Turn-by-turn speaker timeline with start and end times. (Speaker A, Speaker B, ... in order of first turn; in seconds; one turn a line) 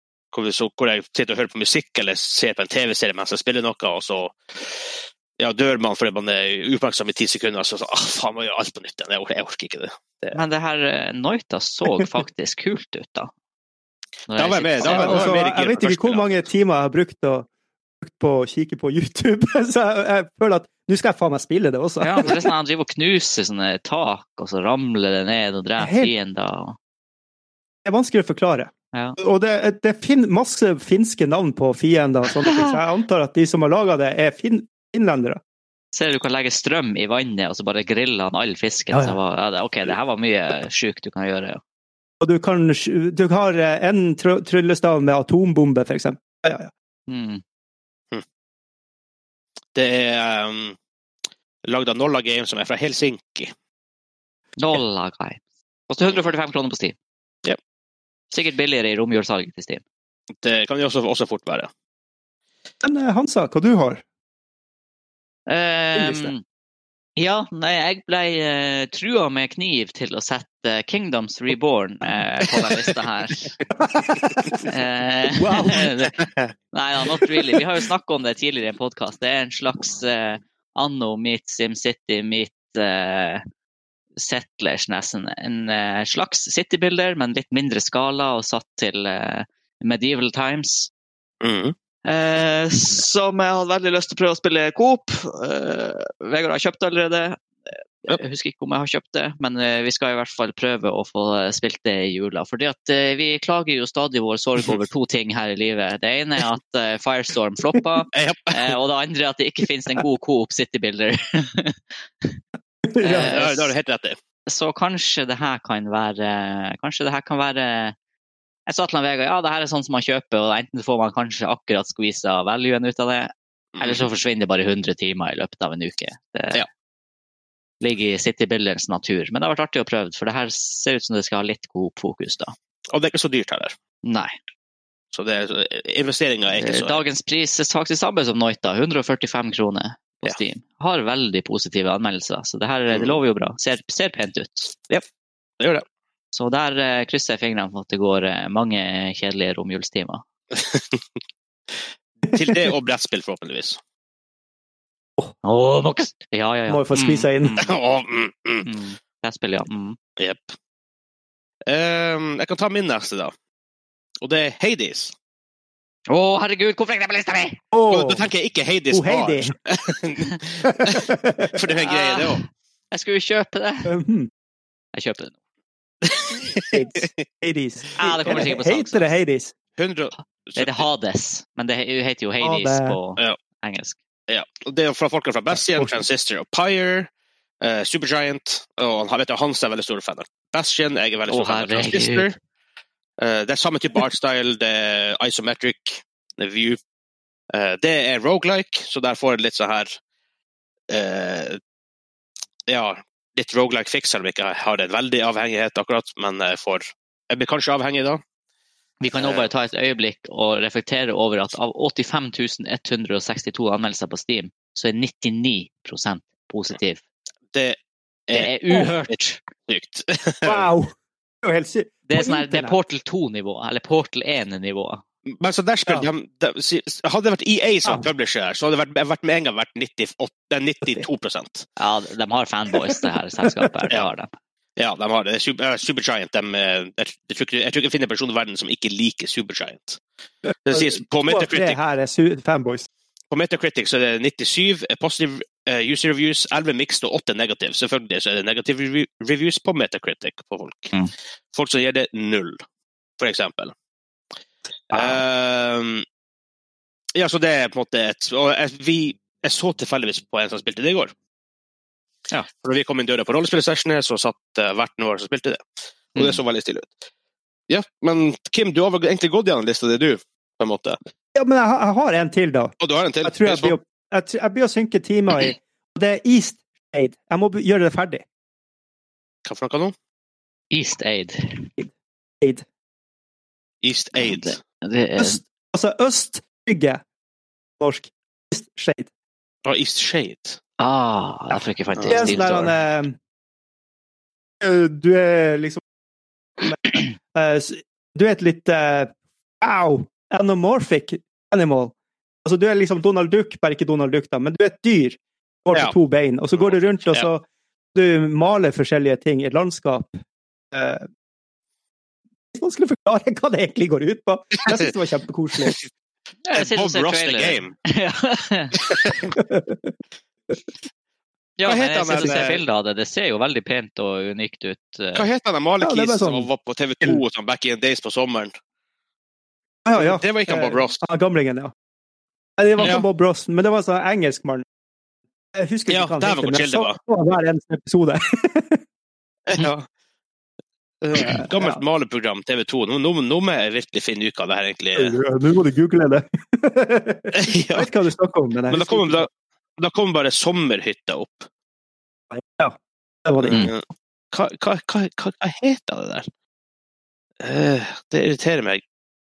Speaker A: 0.3-10.4
Speaker B: 10.3-13.3
Speaker B: 14.3-15.3
Speaker A: 14.3-16.3
Speaker C: 14.8-17.5
Speaker C: 18.0-22.4
Speaker B: 22.0-26.8
Speaker C: 25.8-26.1
Speaker C: 27.8-35.4
Speaker B: 28.9-29.2
Speaker B: 32.4-32.8
Speaker B: 35.9-41.6
Speaker C: 38.9-39.2
Speaker C: 42.2-46.7
Speaker B: 47.1-47.4
Speaker A: 49.7-50.8
Speaker A: 51.6-53.5
Speaker B: 54.6-56.9
Speaker B: 58.3-59.8
Speaker A: 60.4-61.7
Speaker C: 62.8-64.0
Speaker B: 65.5-66.4
Speaker C: 66.0-66.3
Speaker B: 67.2-73.6
Speaker C: 73.8-74.6
Speaker B: 74.6-76.2
Speaker C: 75.3-75.9
Speaker A: 76.2-76.5
Speaker B: 76.7-83.4
Speaker B: 84.2-90.9
Speaker A: 91.4-91.7
Speaker B: 92.0-112.4
Speaker A: 108.1-108.8
Speaker C: 112.9-113.4
Speaker B: 113.0-113.7
Speaker A: 113.0-114.2
Speaker B: 114.5-117.9
Speaker B: 118.7-126.6
Speaker A: 123.7-124.1
Speaker B: 127.8-132.5
Speaker A: 132.9-133.7
Speaker B: 134.0-134.3
Speaker A: 135.1-137.0
Speaker B: 136.5-144.7
Speaker A: 142.9-143.2
Speaker B: 146.3-150.2
Speaker A: 150.5-151.0
Speaker A: 152.2-153.8
Speaker B: 155.4-157.8
Speaker C: 156.7-157.5
Speaker A: 157.6-158.7
Speaker B: 158.6-160.0
Speaker A: 160.2-160.5
Speaker A: 161.7-163.3
Speaker A: 164.2-165.1
Speaker B: 166.1-167.6
Speaker C: 167.7-168.3
Speaker A: 167.9-172.4
Speaker C: 168.9-169.5
Speaker C: 170.6-171.6
Speaker B: 171.8-173.9
Speaker C: 173.8-174.3
Speaker B: 174.9-175.4
Speaker A: 176.0-177.1
Speaker C: 176.7-179.5
Speaker B: 178.0-179.1
Speaker A: 179.8-180.9
Speaker B: 180.6-184.0
Speaker C: 182.4-183.0
Speaker A: 184.3-187.1
Speaker C: 185.5-186.0
Speaker A: 187.6-192.3
Speaker B: 191.3-192.3
Speaker A: 193.2-196.8
Speaker A: 197.5-200.0
Speaker A: 200.9-201.6
Speaker A: 202.7-208.2
Speaker B: 209.0-217.0
Speaker A: 209.1-209.5
Speaker A: 218.3-219.2
Speaker B: 218.3-219.4
Speaker A: 219.7-220.7
Speaker C: 220.4-222.8
Speaker B: 222.1-225.0
Speaker A: 225.3-231.7
Speaker B: 231.8-234.3
Speaker A: 234.8-240.0
Speaker A: 240.7-241.8
Speaker C: 240.7-242.9
Speaker A: 243.3-250.9
Speaker A: 251.5-252.6
Speaker A: 253.2-253.7
Speaker A: 254.9-256.0
Speaker B: 254.9-255.2
Speaker A: 257.1-261.1
Speaker A: 262.6-267.0
Speaker A: 267.7-271.0
Speaker C: 271.3-278.2
Speaker A: 272.8-273.8
Speaker A: 279.4-279.9
Speaker B: 280.7-281.7
Speaker C: 281.8-282.6
Speaker A: 283.8-284.6
Speaker B: 284.1-285.4
Speaker C: 285.2-287.0
Speaker C: 287.8-289.1
Speaker A: 289.6-290.6
Speaker B: 290.8-292.7
Speaker A: 292.0-292.4
Speaker C: 292.1-293.2
Speaker C: 294.6-295.8
Speaker C: 296.6-301.9
Speaker C: 302.4-310.2
Speaker A: 306.5-307.3
Speaker C: 310.7-311.0
Speaker C: 312.5-315.8
Speaker B: 316.4-318.8
Speaker A: 316.5-317.7
Speaker A: 318.9-319.2
Speaker C: 319.3-319.9
Speaker B: 321.6-325.3
Speaker A: 321.6-322.6
Speaker A: 325.1-328.5
Speaker C: 325.8-326.5
Speaker C: 329.8-331.7
Speaker A: 329.9-331.0
Speaker C: 332.6-334.6
Speaker A: 332.8-333.0
Speaker C: 335.5-338.8
Speaker A: 335.9-337.0
Speaker A: 339.5-339.9
Speaker A: 341.0-345.1
Speaker C: 341.1-341.8
Speaker C: 344.9-349.3
Speaker A: 347.3-347.9
Speaker A: 348.7-351.5
Speaker C: 352.3-353.7
Speaker A: 353.4-356.2
Speaker A: 357.4-358.8